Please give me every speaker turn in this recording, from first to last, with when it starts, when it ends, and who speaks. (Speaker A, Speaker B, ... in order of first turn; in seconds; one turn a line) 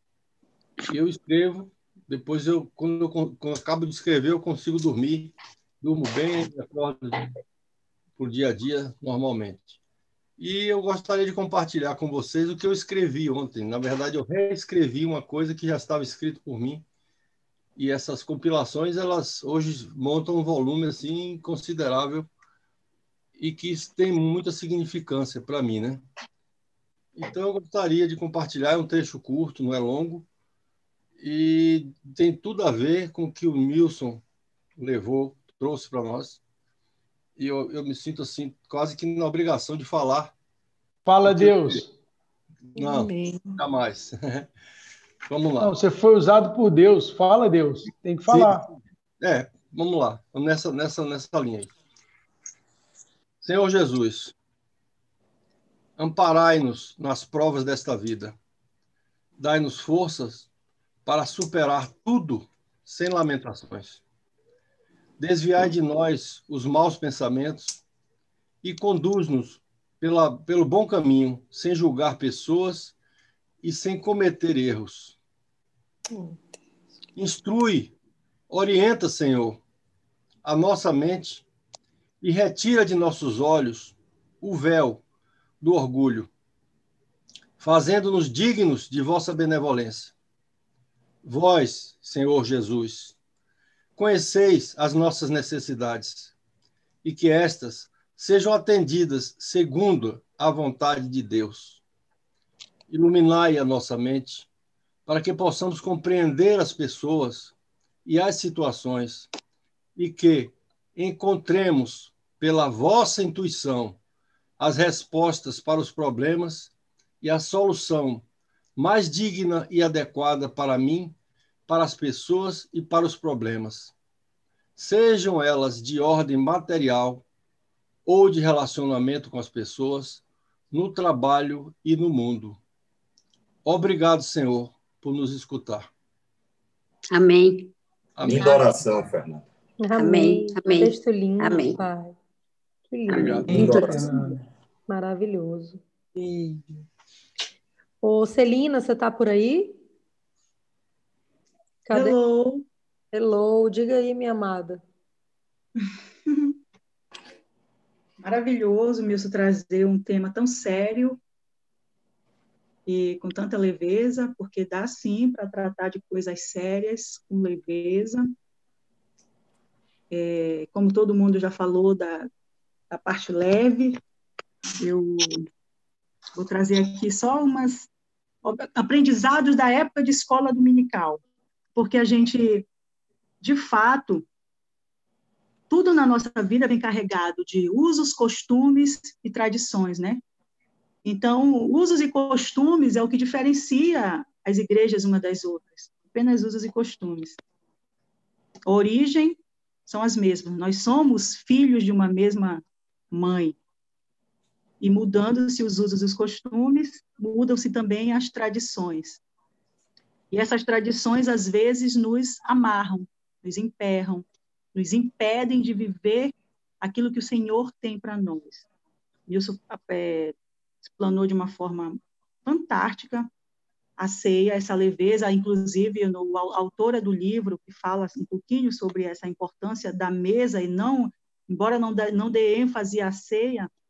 Speaker A: 0.9-7.3
Speaker A: 8.2-9.8
Speaker A: 10.4-16.8
Speaker A: 17.8-22.3
Speaker A: 23.4-26.0
Speaker A: 27.1-30.2
Speaker A: 31.2-34.2
Speaker A: 34.8-36.4
Speaker A: 37.4-40.3
Speaker B: 41.0-41.9
Speaker A: 41.2-41.8
Speaker A: 42.7-44.5
Speaker C: 42.8-43.1
Speaker A: 45.3-45.7
Speaker B: 45.6-48.7
Speaker A: 48.3-51.7
Speaker A: 53.4-54.3
Speaker A: 56.0-58.4
Speaker A: 59.4-60.5
Speaker A: 61.0-64.0
Speaker A: 65.2-67.8
Speaker A: 68.6-72.9
Speaker A: 73.6-75.2
Speaker A: 77.1-77.9
Speaker A: 78.5-79.6
Speaker A: 80.4-81.4
Speaker A: 82.2-85.0
Speaker A: 85.6-86.3
Speaker A: 87.6-90.1
Speaker A: 91.2-93.2
Speaker A: 94.0-96.3
Speaker A: 97.0-101.8
Speaker A: 102.9-104.5
Speaker A: 105.0-109.3
Speaker A: 110.0-114.0
Speaker A: 114.6-118.2
Speaker A: 118.8-121.1
Speaker A: 121.7-123.9
Speaker A: 124.8-127.2
Speaker A: 128.0-132.6
Speaker A: 133.6-135.9
Speaker D: 137.1-137.7
Speaker A: 138.2-138.5
Speaker E: 138.2-139.4
Speaker C: 139.8-142.1
Speaker D: 140.0-141.8
Speaker C: 142.9-144.2
Speaker D: 143.1-143.9
Speaker A: 143.1-143.4
Speaker E: 143.2-144.0
Speaker B: 143.5-144.4
Speaker C: 144.9-145.8
Speaker B: 146.2-146.6
Speaker C: 148.0-149.7
Speaker C: 151.8-152.2
Speaker F: 151.9-152.6
Speaker C: 153.1-154.8
Speaker F: 155.8-156.5
Speaker F: 158.2-161.2
Speaker F: 162.8-168.3
Speaker F: 170.1-172.3
Speaker F: 172.9-174.0
Speaker F: 174.8-175.4
Speaker F: 176.3-177.9
Speaker F: 178.4-181.2
Speaker F: 181.7-182.7
Speaker F: 183.4-184.2
Speaker F: 185.7-190.2
Speaker F: 191.0-197.4
Speaker F: 198.7-203.6
Speaker F: 204.8-209.2
Speaker F: 210.3-218.7
Speaker F: 219.3-223.3
Speaker F: 224.0-233.7